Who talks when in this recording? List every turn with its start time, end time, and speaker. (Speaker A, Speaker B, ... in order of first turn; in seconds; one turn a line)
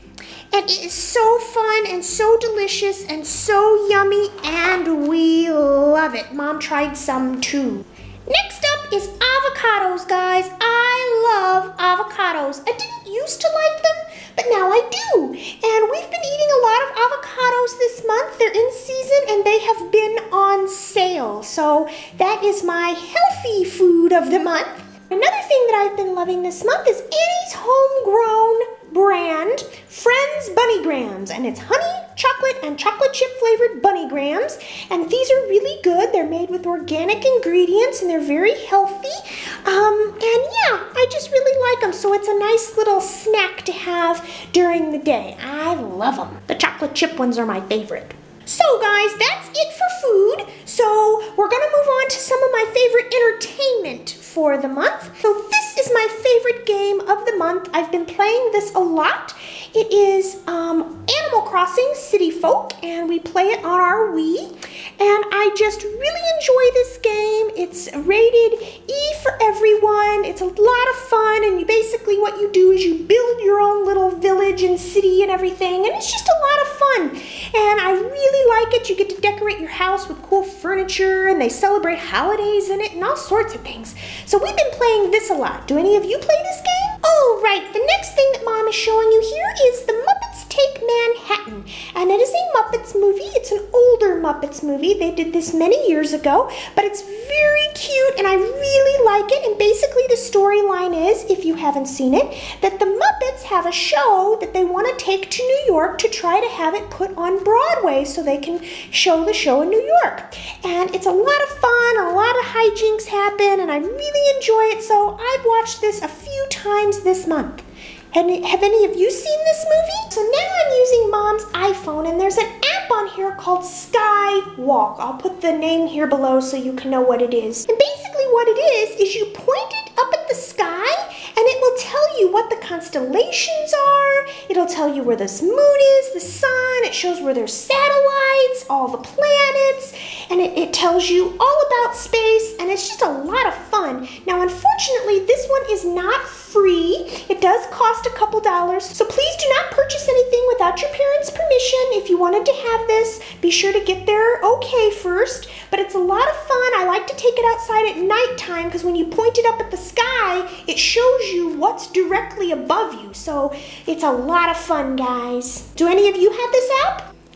Speaker A: 0.5-167.1